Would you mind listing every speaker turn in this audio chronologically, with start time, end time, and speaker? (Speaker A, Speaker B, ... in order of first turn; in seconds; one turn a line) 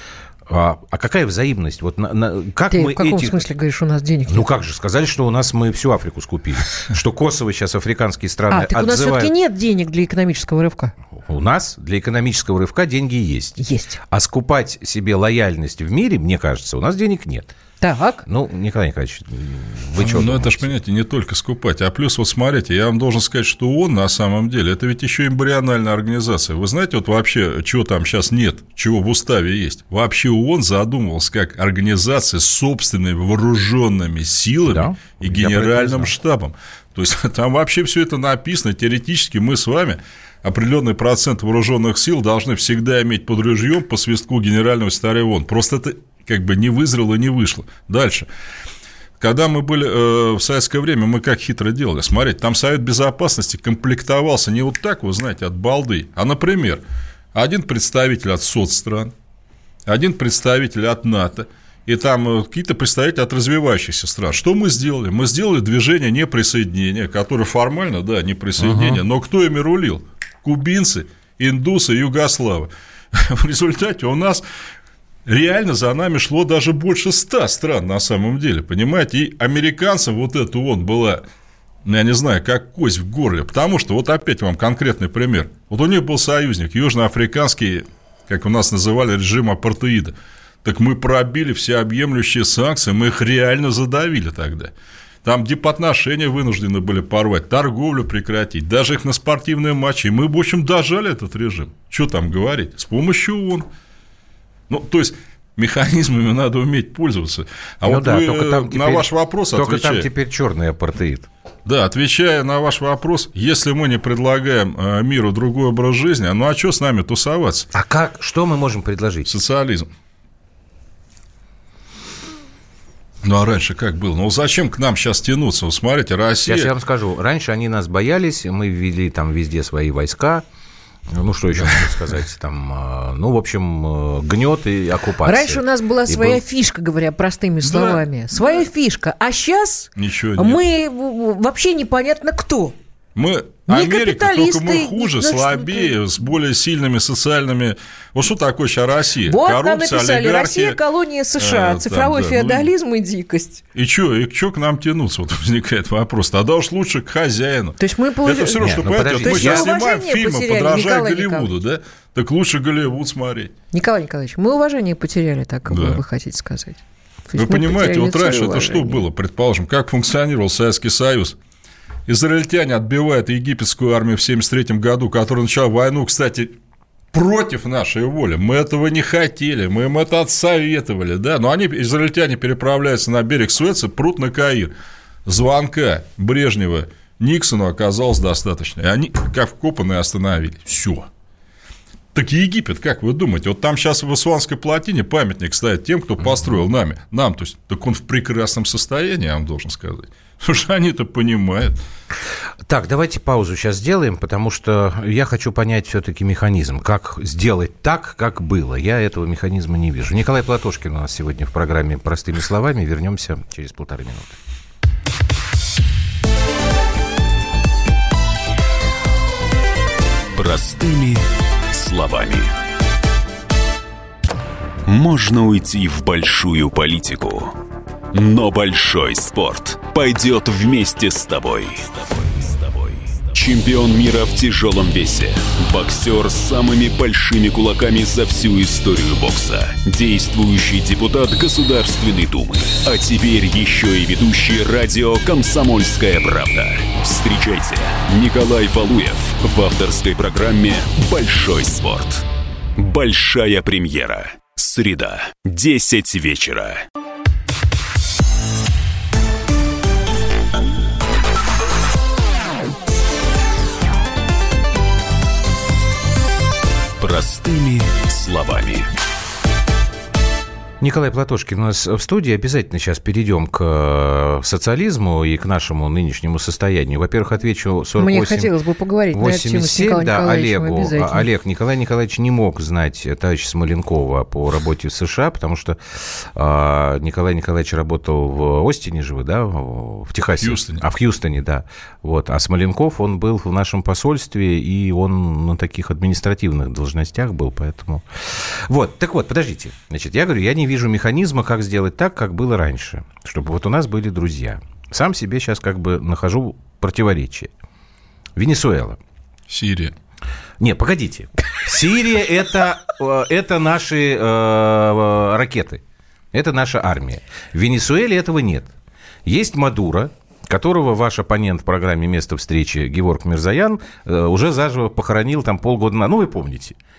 Speaker A: 0.5-3.4
Speaker B: 2.7-4.5
Speaker A: 4.3-9.3
Speaker B: 8.5-10.9
Speaker A: 11.2-17.5
Speaker B: 13.6-14.0
Speaker B: 17.8-18.2
Speaker A: 18.2-20.7
Speaker C: 20.0-48.3
Speaker A: 34.6-36.1
Speaker C: 49.2-56.8
Speaker C: 57.3-59.1
Speaker C: 59.9-74.4
Speaker A: 68.6-69.0
Speaker C: 75.2-81.2
Speaker C: 81.8-94.7
Speaker C: 95.2-103.7
Speaker C: 104.7-110.1
Speaker A: 107.8-111.3
Speaker C: 111.6-117.7
Speaker A: 117.7-119.3
Speaker C: 119.3-119.9
Speaker C: 123.2-126.7
Speaker A: 126.4-130.4
Speaker A: 131.1-136.4
Speaker B: 135.2-142.8
Speaker C: 137.6-138.0
Speaker C: 140.0-140.6
Speaker C: 143.1-150.8
Speaker B: 143.7-145.9
Speaker B: 149.2-153.6
Speaker C: 151.4-152.7
Speaker C: 153.7-163.5
Speaker B: 157.8-161.5
Speaker A: 158.6-159.7
Speaker B: 163.7-169.0
Speaker C: 165.7-166.0
Speaker C: 167.3-171.3
Speaker C: 172.1-176.5
Speaker C: 177.1-184.7
Speaker C: 185.2-191.1
Speaker C: 192.1-201.8
Speaker A: 202.7-214.4
Speaker D: 220.3-222.5
Speaker D: 224.8-227.6
Speaker D: 228.1-256.9
Speaker D: 267.0-268.9
Speaker A: 270.8-278.5
Speaker B: 278.0-281.2
Speaker A: 279.1-307.5
Speaker C: 290.4-290.8
Speaker A: 308.4-309.0
Speaker C: 309.5-309.9
Speaker A: 310.6-318.7
Speaker A: 319.2-326.8